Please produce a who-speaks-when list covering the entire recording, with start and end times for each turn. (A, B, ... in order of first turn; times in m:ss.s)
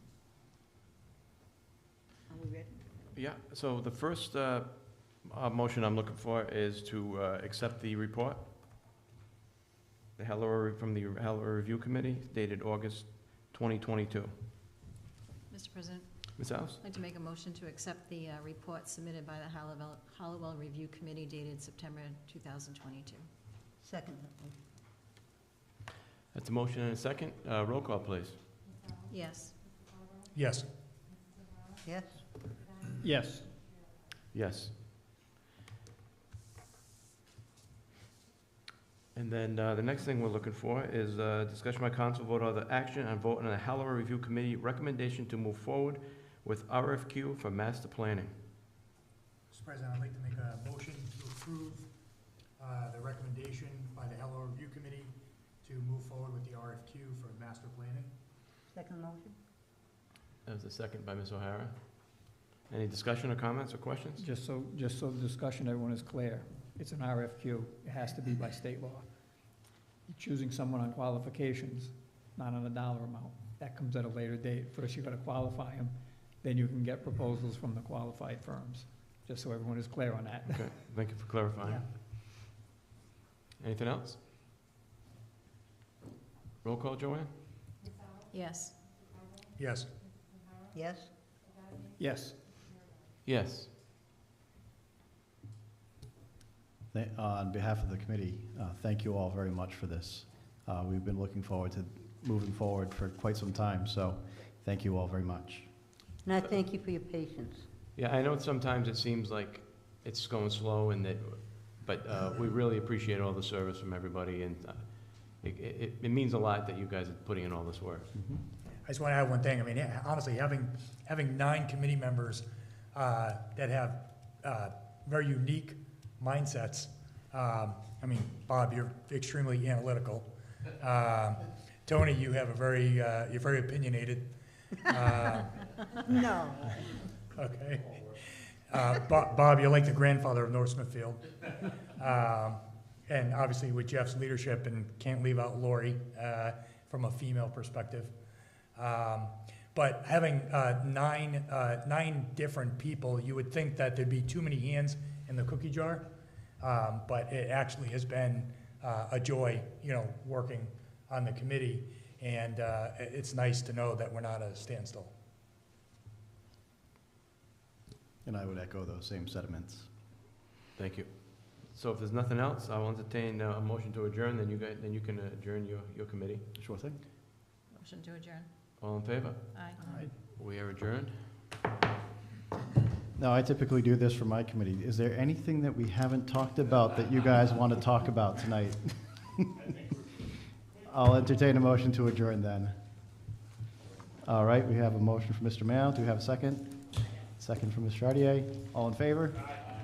0:02.3-0:02.8 A
0:03.1-0:08.4 B
0:10.2-0:14.3 B
0:15.5-0:23.2 C
0:16.4-0:16.8 B
0:23.8-0:24.6 A
0:26.3-0:28.4 B
0:29.1-0:29.6 C
0:30.3-0:30.6 D
0:31.8-0:32.2 A
0:33.0-0:33.5 E
0:34.3-0:34.8 B
0:39.1-0:48.3 B
0:49.5-0:51.9 D
0:52.6-0:58.1 D
0:58.7-0:59.4 A
1:00.4-1:04.2 B
1:04.2-1:09.1 E
1:10.1-1:20.7 E
1:20.4-1:21.8 B
1:23.6-1:24.2 B
1:26.6-1:27.3 B
1:28.3-1:28.8 C
1:29.6-1:29.9 D
1:30.7-1:31.1 A
1:32.0-1:32.4 E
1:33.2-1:33.7 B
1:36.9-1:45.7 F
1:46.2-1:47.7 A
1:48.0-1:58.1 B
1:58.1-1:58.4 F
1:58.8-2:14.3 D
2:14.8-2:15.6 D
2:16.0-2:16.8 A
2:17.3-2:17.9 D
2:18.7-2:21.3 D
2:22.0-2:28.1 D
2:28.8-2:36.0 D
2:36.6-2:45.1 D
2:48.2-2:49.9 F
2:50.8-2:56.4 B
2:56.5-2:57.0 F
2:57.7-2:58.5 C
2:58.8-2:59.5 B
2:59.5-2:59.8 C
3:00.2-3:01.2 B
3:03.2-3:09.6 F
3:10.8-3:12.8 F
3:14.2-3:19.6 F